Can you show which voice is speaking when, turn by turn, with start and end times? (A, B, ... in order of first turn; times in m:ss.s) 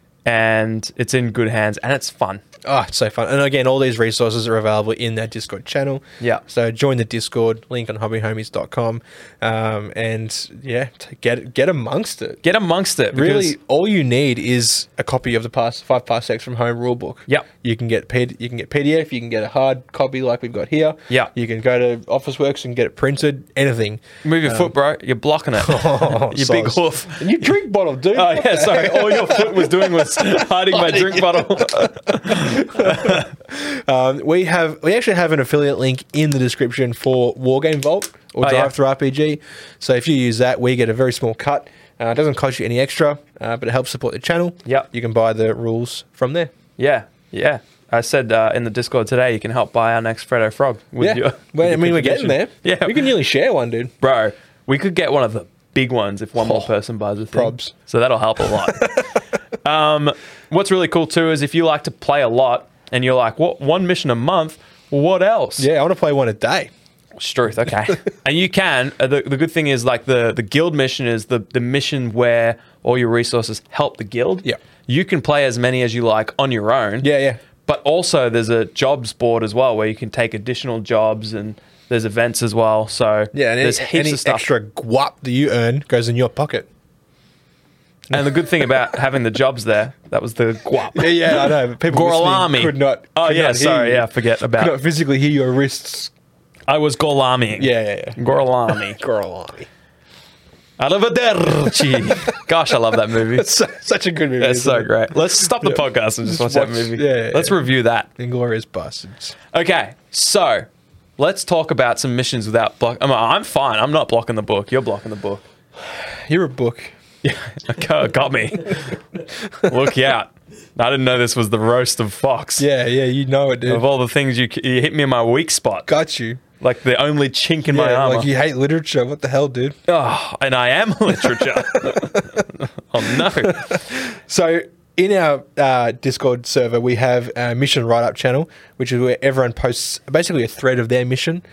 0:00.2-0:02.4 A
0:02.6-0:12.4 B
0:12.4-0:13.5 A
0:13.1-0:24.7 B
0:24.2-0:27.5 A
0:25.6-0:46.5 B
0:28.1-0:33.3 A
0:38.4-0:38.7 A
0:46.8-0:53.1 A
0:51.0-0:53.9 B
0:54.0-0:59.1 A
0:56.4-0:56.7 B
0:57.3-0:57.7 B
0:58.4-0:59.1 B
0:59.6-1:05.7 A
1:05.6-1:06.7 B
1:07.2-1:17.1 A
1:17.0-1:17.4 B
1:17.6-1:24.4 A
1:23.3-1:26.7 B
1:28.1-1:28.4 B
1:28.1-1:34.7 A
1:30.9-1:36.1 B
1:36.7-1:39.0 A
1:37.6-1:38.2 B
1:38.7-1:39.7 B
1:40.8-1:43.6 A
1:42.1-1:42.4 B
1:43.2-1:47.6 B
1:44.4-1:48.1 A
1:48.2-1:49.4 B
1:49.5-1:50.7 A
1:51.2-1:55.4 A
1:55.8-1:56.9 B
1:57.2-1:59.0 A
1:59.6-2:02.6 A
2:02.6-2:03.8 B
2:03.6-2:05.9 A
2:05.9-2:06.4 B
2:06.6-2:08.3 A
2:07.7-2:09.8 B
2:09.9-2:13.8 A
2:11.3-2:12.4 B
2:13.1-2:21.4 B